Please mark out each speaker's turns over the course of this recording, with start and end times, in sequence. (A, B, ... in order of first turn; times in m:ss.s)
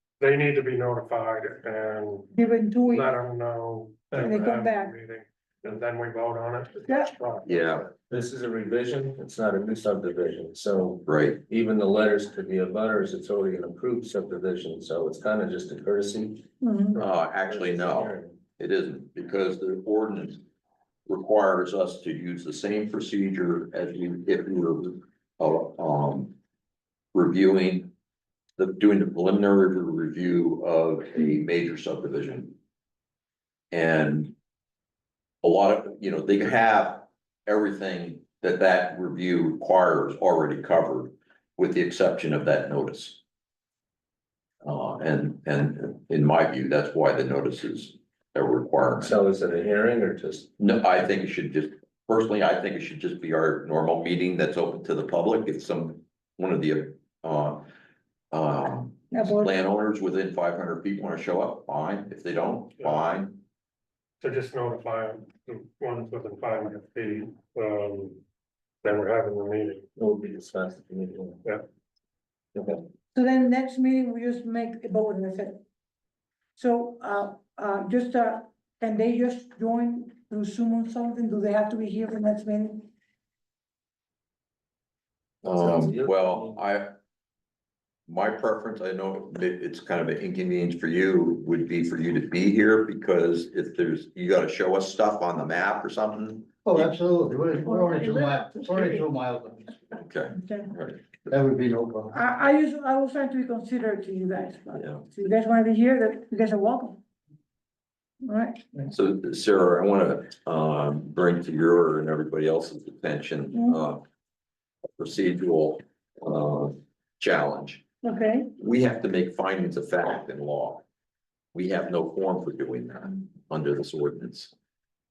0:00.2-0:02.3 A
0:02.3-0:03.2 B
0:02.8-0:07.7 A
0:04.1-0:04.4 C
0:04.2-0:04.9 B
0:06.8-0:07.1 B
0:07.4-0:07.9 D
0:07.9-0:18.4 C
0:11.0-0:11.4 D
0:16.6-0:17.0 B
0:17.0-0:20.4 D
0:21.1-0:26.3 D
0:27.1-0:27.9 D
0:28.6-0:32.6 D
0:33.7-0:34.3 D
0:35.4-0:43.2 D
0:44.6-0:49.1 D
0:48.9-0:50.5 C
0:50.6-0:57.7 D
0:58.3-1:03.4 D
0:59.1-0:59.5 B
1:02.8-1:03.1 A
1:04.2-1:08.2 A
1:08.8-1:09.8 A
1:10.0-1:11.4 C
1:12.5-1:12.8 C
1:13.1-1:15.6 B
1:16.6-1:22.9 B
1:25.4-1:26.9 D
1:25.5-1:26.6 C
1:28.1-1:36.9 D
1:36.6-1:39.8 E
1:37.6-1:39.1 B
1:40.0-1:41.0 D
1:40.3-1:40.7 B
1:41.3-1:42.2 E
1:42.1-1:47.0 B
1:44.7-1:45.0 D
1:48.2-1:48.8 B
1:48.9-1:54.0 D
1:53.5-1:53.8 B
1:55.0-1:57.8 D
1:58.0-1:58.5 B
1:58.6-2:00.8 D
2:01.5-2:04.5 D